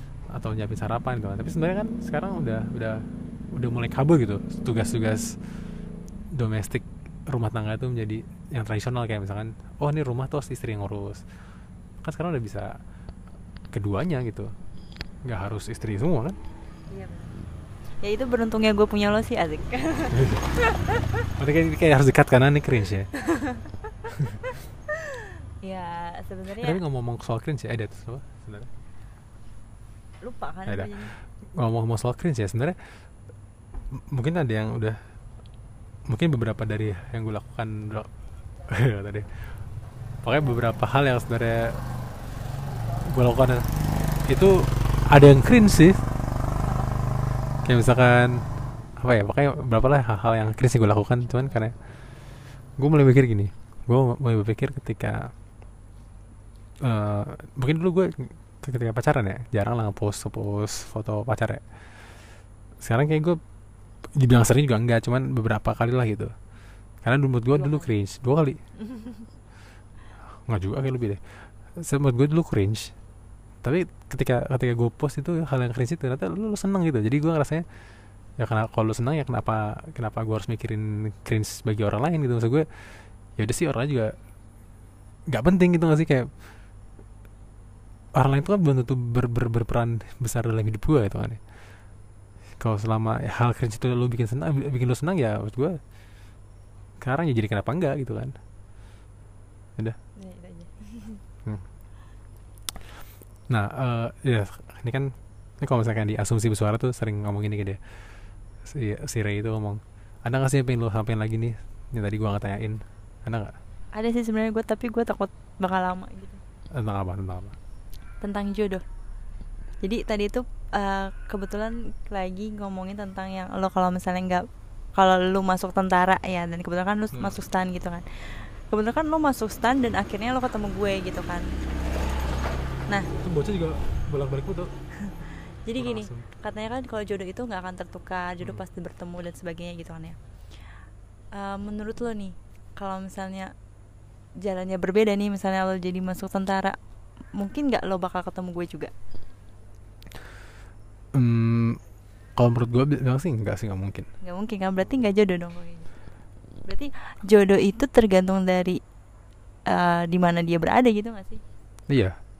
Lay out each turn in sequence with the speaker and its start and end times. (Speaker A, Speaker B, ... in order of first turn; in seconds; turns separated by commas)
Speaker A: 0.3-5.6, Speaker A: 6.3-11.2, Speaker A: 12.0-12.8, Speaker A: 13.7-14.5, Speaker A: 15.2-16.4, Speaker B: 16.9-17.4, Speaker B: 18.0-21.3, Speaker A: 20.1-20.4, Speaker A: 21.3-23.1, Speaker B: 23.1-23.9, Speaker A: 24.1-24.4, Speaker B: 24.4-26.8, Speaker A: 26.6-28.7, Speaker B: 30.2-31.1, Speaker A: 30.7-33.0, Speaker A: 34.0-35.0, Speaker A: 36.1-38.1, Speaker A: 38.7-39.6, Speaker A: 40.2-41.8, Speaker A: 43.0-43.7, Speaker A: 44.2-46.0, Speaker B: 46.6-47.2, Speaker A: 47.6-48.5, Speaker A: 49.0-51.7, Speaker A: 52.8-55.3, Speaker A: 56.8-61.7, Speaker A: 62.8-63.4, Speaker A: 64.2-66.3, Speaker A: 67.0-68.6, Speaker B: 67.5-67.9, Speaker B: 68.8-69.3, Speaker A: 70.5-72.9, Speaker A: 73.6-77.6, Speaker A: 78.4-84.1, Speaker A: 85.3-86.3, Speaker A: 88.2-91.4, Speaker A: 92.6-95.8, Speaker A: 97.0-98.4, Speaker B: 100.2-101.2, Speaker A: 103.5-107.9, Speaker A: 108.6-113.6, Speaker B: 113.9-116.4, Speaker A: 116.7-117.6, Speaker B: 118.2-118.8, Speaker B: 119.8-131.5, Speaker A: 133.2-134.7, Speaker B: 135.0-140.2, Speaker A: 135.8-136.3, Speaker B: 141.3-143.5, Speaker B: 144.4-146.8, Speaker B: 147.3-148.9, Speaker A: 151.1-151.8, Speaker A: 152.3-154.1, Speaker B: 154.2-155.9, Speaker B: 156.6-158.8, Speaker B: 159.7-161.4, Speaker A: 161.9-162.2